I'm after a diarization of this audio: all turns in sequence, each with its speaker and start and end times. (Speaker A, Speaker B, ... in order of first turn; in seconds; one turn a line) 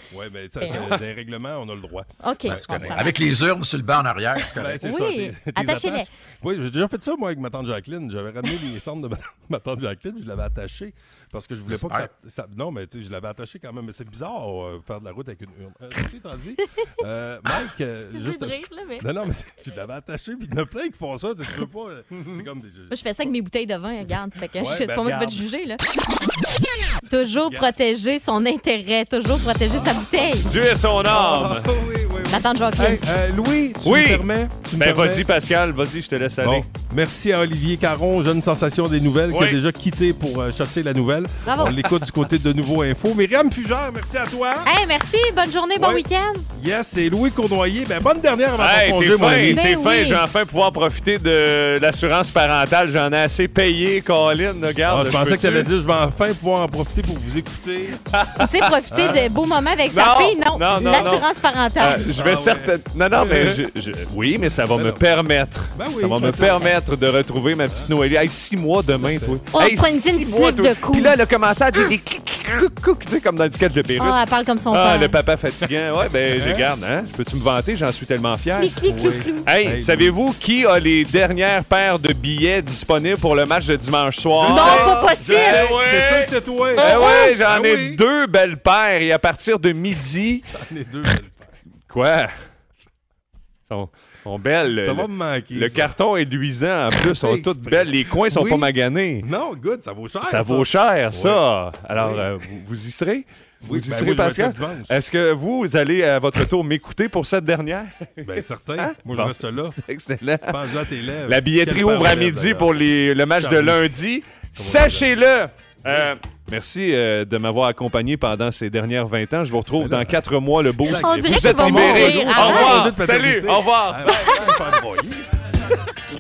Speaker A: 0.1-3.0
Speaker B: 0.6-0.9
Speaker C: 0.7-1.0
Speaker B: 2.2-3.2
Speaker D: 2.5-4.8
Speaker A: 4.5-22.9
Speaker B: 4.8-6.1
Speaker D: 11.7-12.1
Speaker B: 18.0-19.1
Speaker B: 22.9-25.8
Speaker A: 24.6-25.5
Speaker B: 27.1-30.5
Speaker A: 27.4-27.7
Speaker C: 30.4-31.7
Speaker A: 31.0-35.3
Speaker B: 32.3-33.0
Speaker C: 33.8-36.7
Speaker A: 36.4-44.7
Speaker C: 39.3-39.6
Speaker B: 41.5-41.8
Speaker B: 44.6-46.5
Speaker A: 45.8-49.6
Speaker C: 48.6-55.7
Speaker B: 49.5-50.2
Speaker A: 54.9-58.0
Speaker C: 58.1-58.7
Speaker B: 58.4-62.1
Speaker A: 58.9-59.3
Speaker C: 59.9-61.3
Speaker A: 60.8-61.2
Speaker C: 61.8-90.4
Speaker A: 62.1-63.6
Speaker A: 64.7-65.1
Speaker A: 65.7-66.8
Speaker A: 67.6-67.9
Speaker A: 69.0-69.4
Speaker B: 69.5-71.1
Speaker B: 74.0-75.2
Speaker A: 76.3-76.7
Speaker B: 78.6-79.5
Speaker A: 78.8-80.2
Speaker A: 84.3-88.0
Speaker B: 84.5-85.7
Speaker B: 86.8-87.3
Speaker A: 90.5-91.5
Speaker C: 91.9-92.3
Speaker C: 93.7-99.2
Speaker A: 94.8-96.0
Speaker A: 96.9-102.4
Speaker C: 100.3-110.6
Speaker A: 103.6-105.0
Speaker A: 108.2-109.8
Speaker A: 110.4-113.9
Speaker C: 111.3-124.5
Speaker A: 114.6-115.2
Speaker A: 115.8-116.1
Speaker A: 119.8-120.2
Speaker A: 120.8-125.3
Speaker B: 120.9-122.9